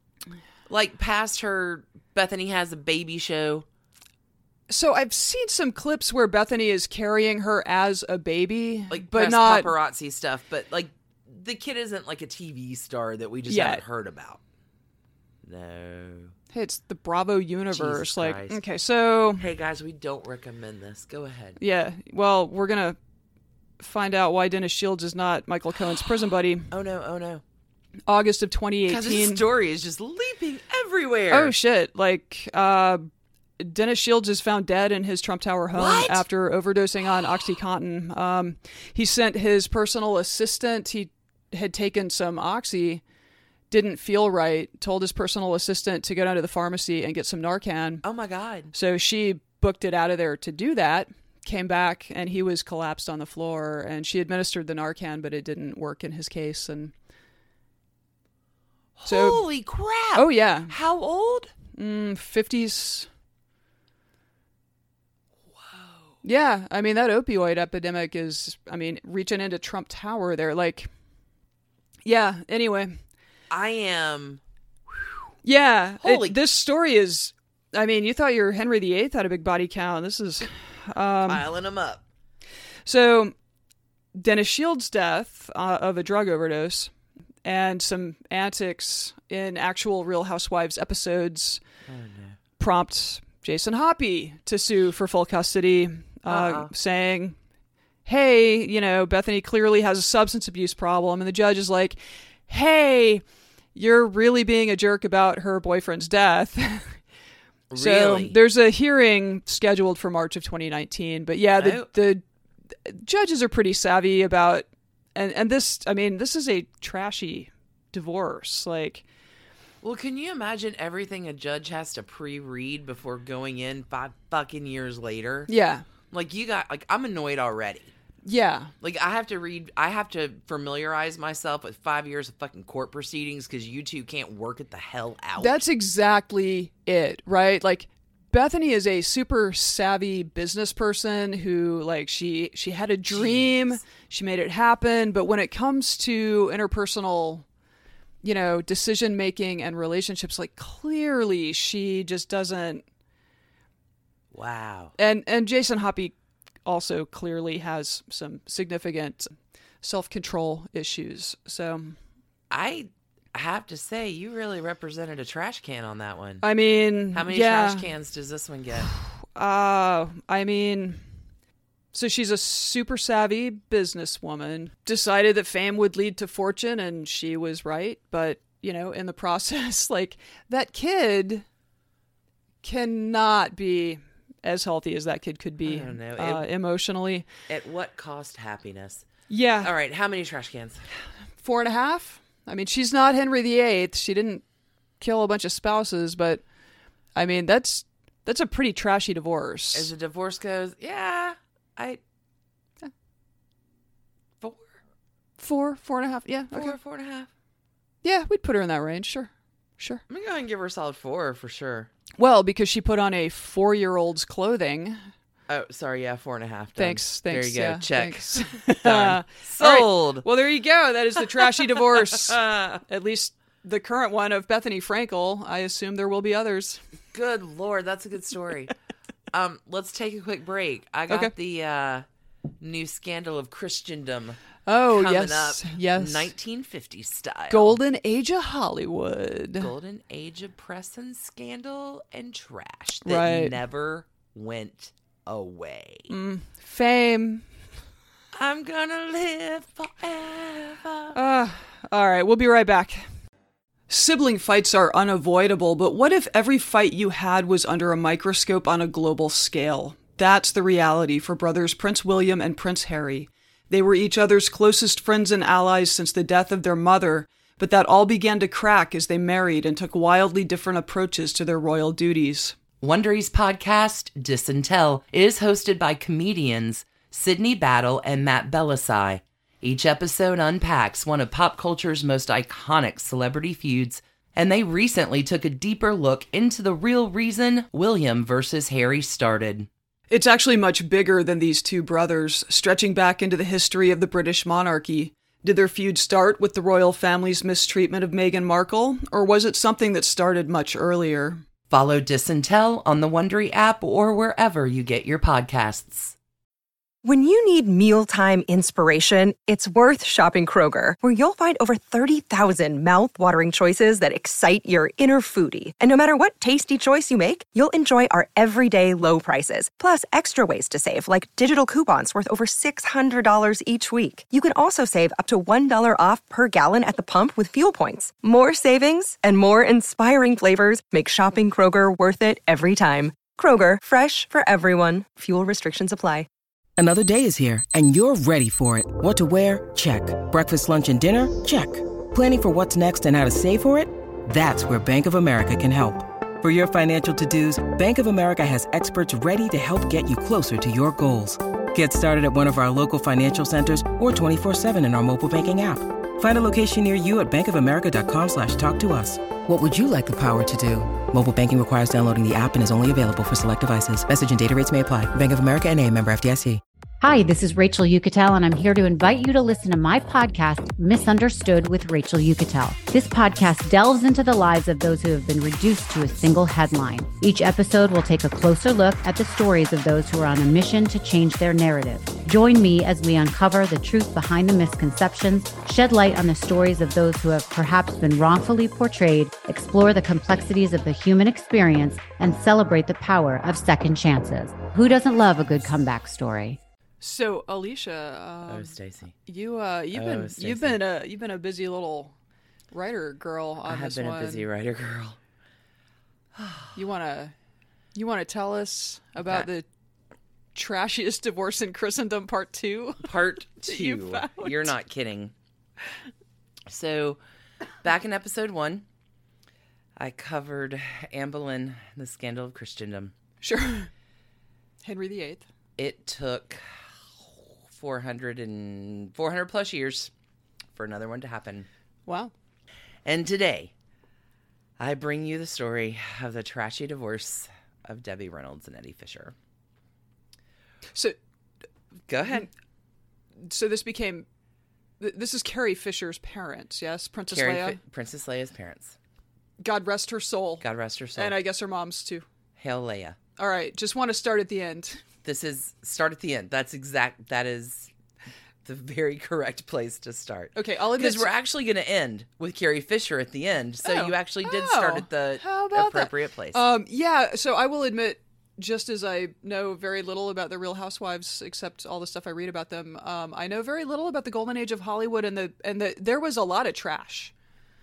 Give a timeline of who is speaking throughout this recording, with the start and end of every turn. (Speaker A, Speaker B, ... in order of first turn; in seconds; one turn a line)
Speaker A: 0.7-3.6
Speaker B: 4.7-9.7
Speaker A: 8.9-14.4
Speaker B: 13.5-13.8
Speaker A: 15.4-16.3
Speaker B: 16.5-19.4
Speaker A: 17.7-18.6
Speaker A: 19.4-21.6
Speaker B: 21.6-23.0
Speaker B: 23.8-26.7
Speaker A: 26.7-27.4
Speaker B: 28.1-29.4
Speaker A: 28.9-31.5
Speaker B: 31.3-33.1
Speaker B: 33.6-43.0
Speaker A: 35.7-36.2
Speaker B: 43.7-48.0
Speaker A: 48.0-48.7
Speaker B: 48.7-56.9
Speaker A: 59.0-61.5
Speaker B: 59.0-59.4
Speaker B: 60.1-60.7
Speaker B: 61.7-63.1
Speaker A: 65.5-66.1
Speaker B: 66.2-70.9
Speaker B: 72.0-73.0
Speaker A: 73.5-74.4
Speaker B: 75.4-81.5
Speaker A: 76.0-76.4
Speaker A: 81.2-82.0
Speaker B: 82.8-83.3
Speaker B: 84.1-86.9
Speaker B: 87.4-91.6
Speaker A: 91.8-92.4
Speaker B: 92.6-97.3
Speaker A: 96.3-96.7
Speaker B: 98.0-103.2
Speaker B: 103.7-107.0
Speaker A: 107.7-108.4
Speaker B: 107.7-112.2
Speaker A: 111.6-111.9
Speaker B: 112.8-119.0
Speaker A: 119.8-125.5
Speaker B: 125.5-125.9
Speaker A: 126.1-127.9
Speaker B: 128.2-128.7
Speaker A: 128.8-135.6
Speaker B: 135.4-147.4
Speaker A: 143.1-143.8
Speaker B: 148.2-152.8
Speaker A: 154.3-154.9
Speaker B: 155.0-156.1
Speaker B: 156.6-162.0
Speaker A: 162.5-166.4
Speaker B: 166.4-167.9
Speaker A: 167.1-168.9
Speaker B: 169.3-171.0
Speaker B: 171.9-181.4
Speaker B: 182.6-187.3
Speaker A: 185.6-186.4
Speaker A: 187.5-189.1
Speaker B: 189.3-189.7
Speaker A: 189.6-190.8
Speaker B: 191.4-194.4
Speaker B: 195.0-196.4
Speaker B: 197.1-199.9
Speaker A: 199.7-202.0
Speaker A: 204.4-204.8
Speaker B: 205.4-206.8
Speaker A: 206.5-207.3
Speaker B: 208.0-210.0
Speaker A: 210.1-211.9
Speaker B: 212.2-215.0
Speaker A: 215.5-220.2
Speaker B: 216.8-226.8
Speaker A: 221.4-222.5
Speaker A: 227.1-228.7
Speaker A: 229.3-232.1
Speaker A: 232.6-237.8
Speaker B: 234.7-236.3
Speaker B: 237.5-239.7
Speaker A: 239.6-246.1
Speaker B: 243.0-243.6
Speaker B: 246.1-247.4
Speaker A: 248.3-251.2
Speaker B: 251.1-253.1
Speaker B: 253.9-272.6
Speaker A: 272.8-289.7
Speaker B: 290.1-301.4
Speaker A: 301.7-306.1
Speaker C: 307.0-336.3
Speaker D: 336.8-366.6
Speaker E: 367.0-396.6
Speaker B: 397.0-398.7
Speaker A: 398.4-399.1
Speaker B: 399.2-402.1
Speaker A: 399.9-400.8
Speaker B: 402.7-404.5
Speaker A: 403.6-405.2
Speaker A: 406.3-406.7
Speaker B: 406.7-407.3
Speaker B: 407.9-409.6
Speaker B: 410.5-414.7
Speaker A: 413.0-415.3
Speaker A: 416.7-417.2
Speaker A: 417.8-418.8
Speaker A: 420.0-423.1
Speaker B: 423.4-423.9
Speaker B: 424.8-425.4
Speaker A: 425.8-426.6
Speaker A: 427.2-430.1
Speaker A: 430.7-431.7
Speaker B: 432.1-432.3
Speaker A: 433.0-433.7
Speaker A: 434.8-439.3
Speaker A: 442.1-442.5
Speaker B: 443.4-444.3
Speaker B: 445.0-447.8
Speaker A: 447.3-449.0
Speaker B: 449.6-452.2
Speaker A: 450.6-451.4
Speaker A: 452.6-453.2
Speaker B: 453.4-455.0
Speaker A: 455.2-457.9
Speaker A: 458.6-466.6
Speaker B: 460.5-461.3
Speaker B: 463.8-477.3